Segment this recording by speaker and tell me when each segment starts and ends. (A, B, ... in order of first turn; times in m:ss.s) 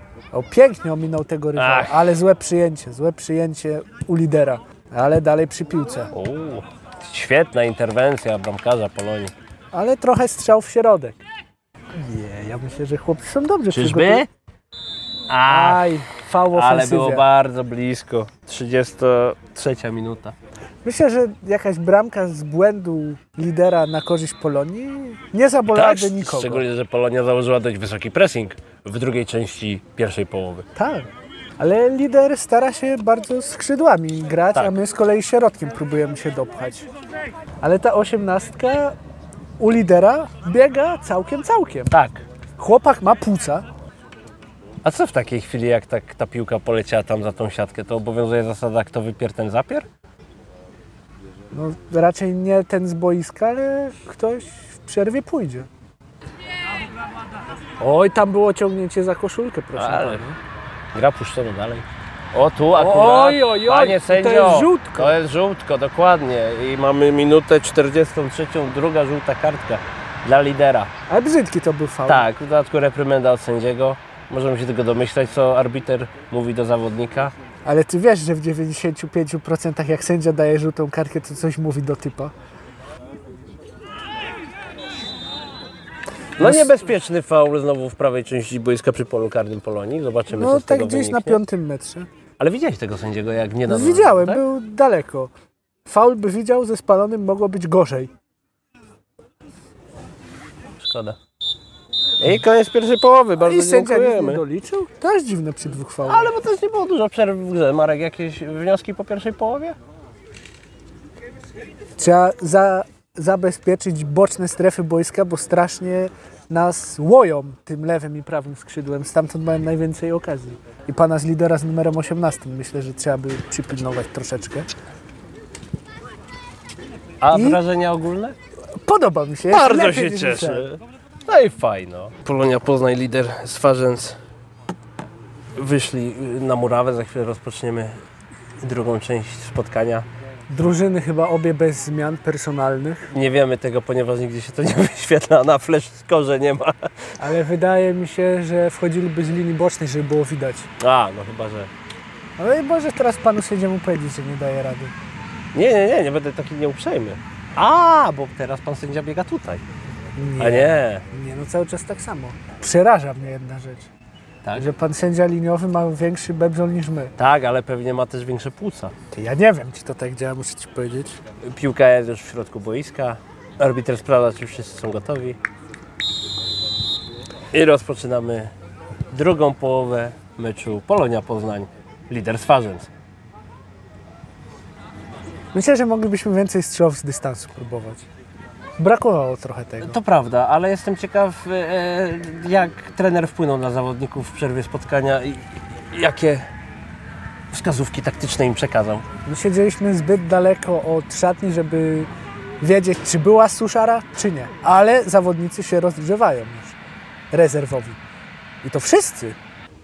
0:00.3-0:06.1 A
0:01.6-0:02.1 B
0:06.1-0:09.3 B
0:09.7-0:11.2 A
0:11.9-0:14.2 A
0:13.7-0:14.3 B
0:15.3-0:15.9 B
0:15.5-0:17.2 A
0:16.5-0:20.4 B
0:20.8-0:26.6 A
0:25.7-0:30.6 B
0:30.8-0:36.9 A
0:37.6-0:39.0 A
0:39.6-0:41.9 A
0:41.9-0:42.2 B
0:42.6-0:43.7 A
0:44.8-0:49.9 B
0:51.5-0:55.7 A
0:57.8-1:00.4 A
0:59.8-1:00.2 B
1:00.9-1:10.9 B
1:02.7-1:05.2 A
1:11.1-1:12.2 A
1:12.0-1:17.3 B
1:17.6-1:22.3 A
1:26.4-1:31.4 B
1:26.4-1:26.8 A
1:30.3-1:32.1 A
1:32.4-1:34.4 B
1:33.7-1:35.3 A
1:35.8-1:38.1 A
1:40.8-1:41.2 B
1:42.2-1:44.4 B
1:43.4-1:46.3 A
1:46.0-1:49.8 B
1:52.0-2:04.7 A
2:07.2-2:08.4 B
2:07.3-2:07.6 A
2:08.7-2:10.6 A
2:09.5-2:14.2 B
2:15.6-2:18.0 B
2:18.6-2:20.0 B
2:20.5-2:23.1 A
2:23.1-2:27.2 B
2:27.2-2:30.7 A
2:30.8-2:31.7 B
2:32.4-2:34.9 A
2:35.5-2:39.6 B
2:40.2-2:43.9 A
2:40.4-2:41.0 B
2:44.5-2:47.1 A
2:47.2-2:48.9 B
2:49.1-2:51.2 A
2:51.4-2:55.4 B
2:57.5-2:58.5 B
2:59.1-3:02.9 B
3:05.5-3:08.0 A
3:08.8-3:10.0 A
3:09.8-3:16.4 B
3:17.5-3:19.0 B
3:19.2-3:22.1 A
3:22.6-3:26.8 A
3:27.3-3:28.0 A
3:28.6-3:29.4 A